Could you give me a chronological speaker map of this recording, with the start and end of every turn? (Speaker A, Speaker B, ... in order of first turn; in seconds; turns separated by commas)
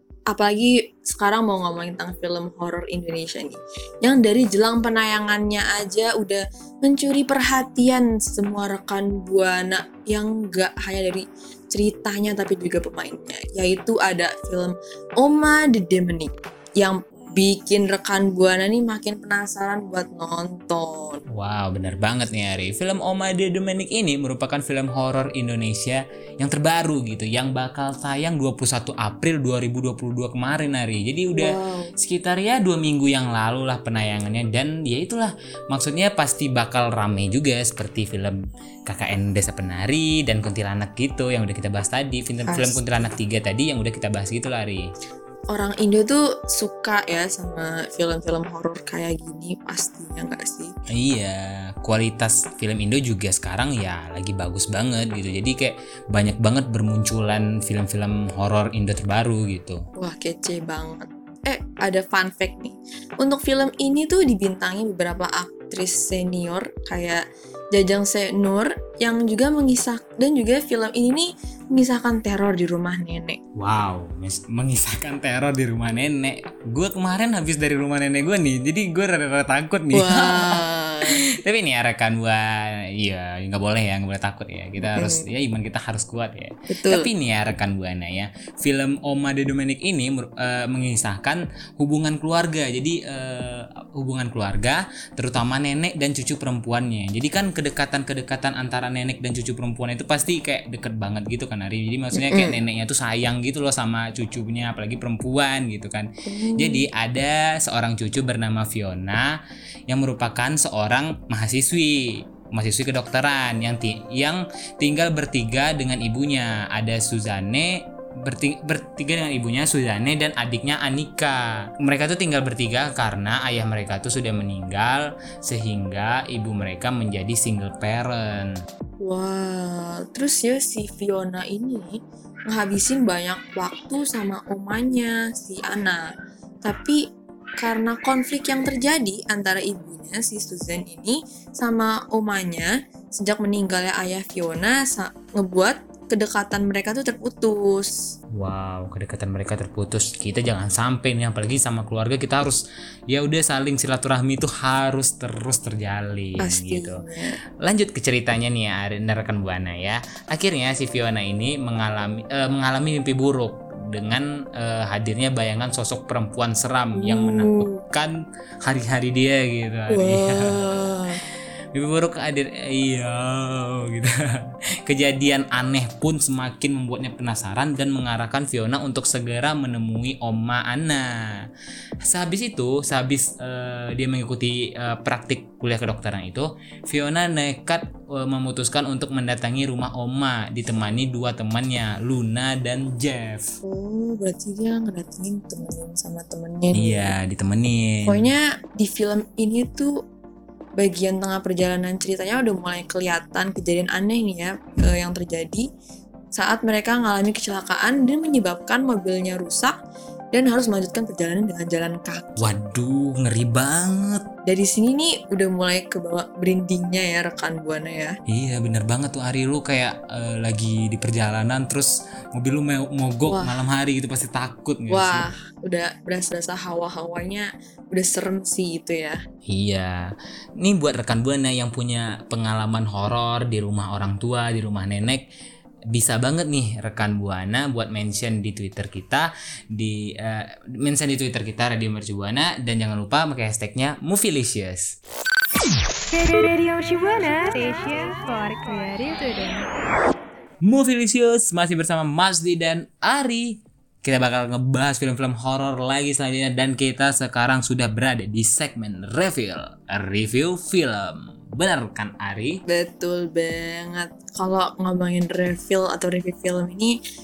Speaker A: 0.3-21.2, Speaker B: 21.3-44.8, Speaker A: 31.3-31.9, Speaker A: 42.4-42.8, Speaker A: 45.5-50.7, Speaker B: 50.9-59.8, Speaker A: 60.0-73.4, Speaker B: 73.6-82.5, Speaker A: 79.9-81.2, Speaker B: 83.0-109.4, Speaker A: 84.8-85.2, Speaker A: 86.7-87.1, Speaker A: 102.1-102.6, Speaker A: 106.3-106.9, Speaker B: 109.9-112.0, Speaker B: 112.5-128.6, Speaker A: 129.0-131.9, Speaker A: 132.5-136.0, Speaker A: 136.6-137.0, Speaker A: 137.6-147.9, Speaker B: 148.3-157.0, Speaker A: 156.4-157.3, Speaker B: 157.6-168.1, Speaker A: 166.9-167.7, Speaker B: 168.6-170.6, Speaker A: 169.9-171.2, Speaker B: 171.7-174.1, Speaker B: 174.8-181.3, Speaker B: 182.0-193.5, Speaker A: 193.6-197.1, Speaker B: 196.7-198.3, Speaker A: 198.0-199.9, Speaker A: 200.8-205.6, Speaker A: 206.3-209.7, Speaker A: 210.3-212.5, Speaker B: 212.4-214.2, Speaker A: 214.4-218.1, Speaker B: 218.3-225.3, Speaker A: 223.2-223.6, Speaker A: 224.9-229.2, Speaker B: 229.5-235.2, Speaker B: 235.9-244.9, Speaker C: 246.1-249.7, Speaker B: 250.6-262.6, Speaker A: 262.7-266.9